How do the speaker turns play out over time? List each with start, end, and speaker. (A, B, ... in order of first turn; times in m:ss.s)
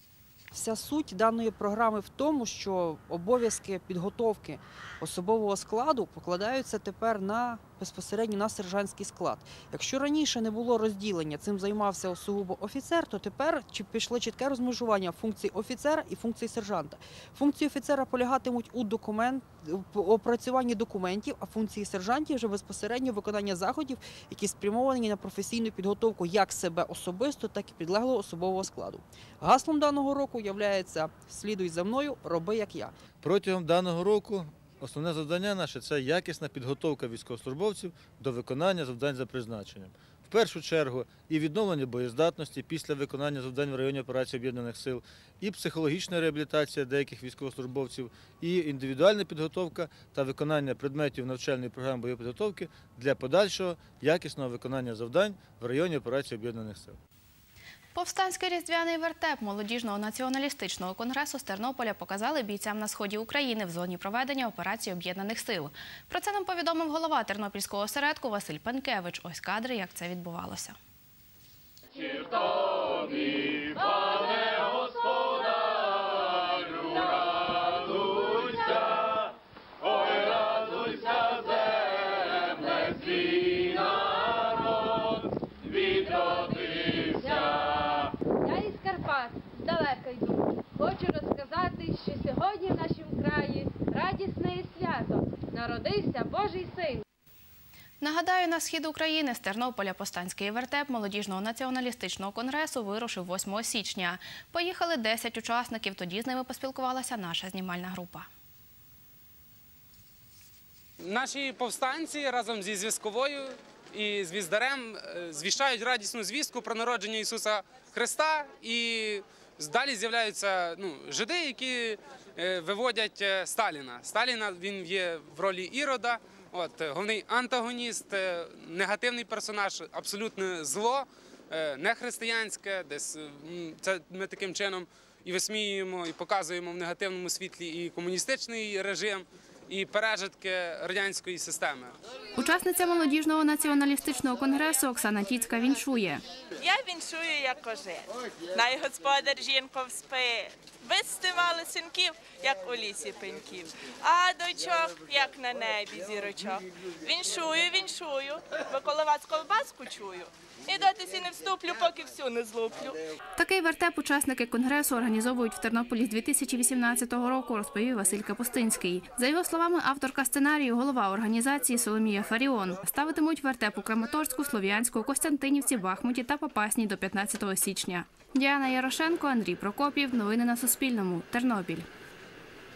0:00.5-0:32.9 A
0:33.2-0:57.0 B
0:57.9-1:10.8 C
1:18.2-1:18.8 D
1:22.7-1:23.7 D
1:25.8-1:37.0 D
1:38.0-1:48.3 C
1:51.0-2:21.9 E
2:22.4-2:26.2 C
2:26.6-2:43.0 F
2:43.4-3:01.9 C